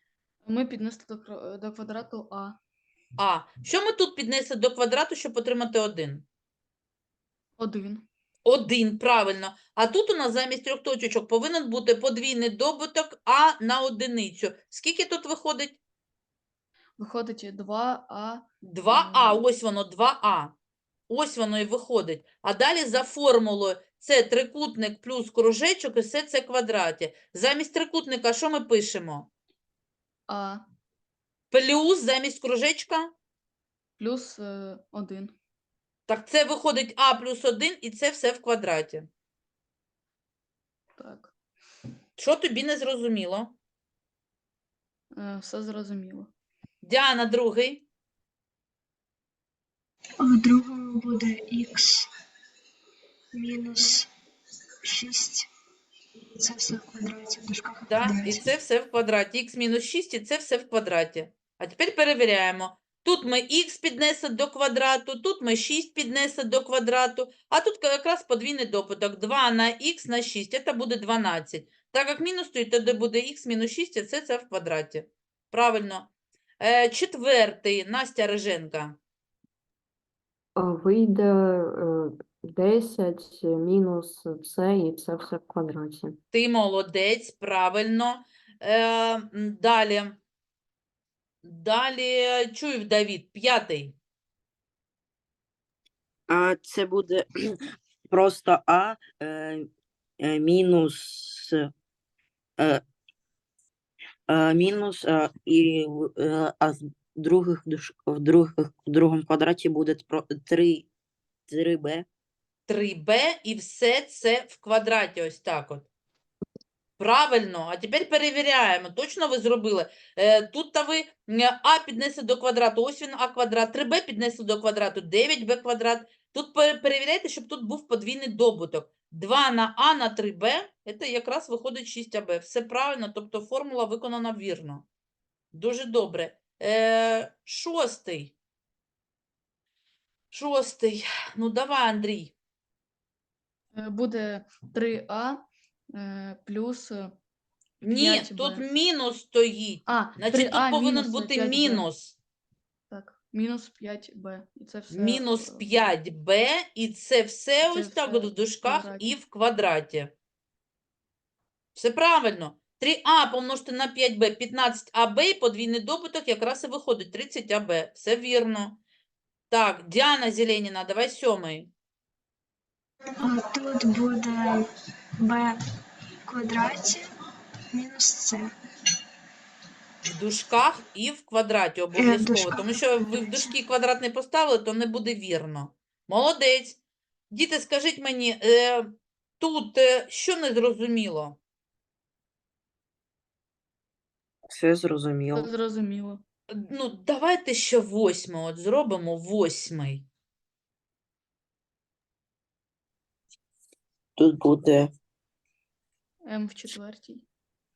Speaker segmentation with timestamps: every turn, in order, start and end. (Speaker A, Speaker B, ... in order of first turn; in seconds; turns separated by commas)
Speaker A: 0.5-2.6, Speaker B: 3.2-6.2, Speaker A: 7.6-8.1, Speaker B: 8.4-15.8, Speaker A: 17.0-19.4, Speaker B: 18.6-20.5, Speaker B: 21.1-29.3, Speaker A: 30.3-30.6, Speaker B: 31.5-33.1, Speaker A: 34.0-35.3, Speaker B: 36.1-39.1, Speaker A: 41.0-41.3, Speaker B: 42.2-43.6, Speaker A: 45.1-46.3, Speaker B: 46.8-47.8, Speaker C: 50.2-52.1, Speaker C: 53.3-54.1, Speaker C: 54.8-55.5, Speaker C: 56.4-58.5, Speaker B: 57.9-76.1, Speaker B: 76.6-79.0, Speaker D: 80.6-86.2, Speaker B: 86.3-90.2, Speaker B: 91.4-94.0, Speaker E: 96.3-99.7, Speaker E: 100.2-101.7, Speaker E: 104.3-110.9, Speaker E: 111.5-112.1, Speaker B: 112.7-115.9, Speaker B: 117.0-134.9, Speaker B: 135.5-138.3, Speaker B: 140.3-142.3, Speaker A: 143.7-147.1, Speaker B: 147.8-152.2, Speaker A: 147.8-148.6, Speaker A: 149.9-151.9, Speaker A: 152.9-155.9, Speaker B: 154.9-160.1, Speaker A: 157.6-159.2, Speaker B: 161.8-168.8, Speaker B: 169.5-171.7, Speaker C: 173.2-174.6, Speaker C: 175.2-175.6, Speaker C: 176.3-177.0, Speaker C: 177.7-178.5, Speaker B: 180.1-186.8, Speaker C: 182.0-183.6, Speaker B: 187.3-191.4, Speaker E: 194.5-195.5, Speaker A: 195.3-196.2, Speaker B: 196.5-200.1, Speaker E: 204.2-204.9, Speaker A: 206.3-207.3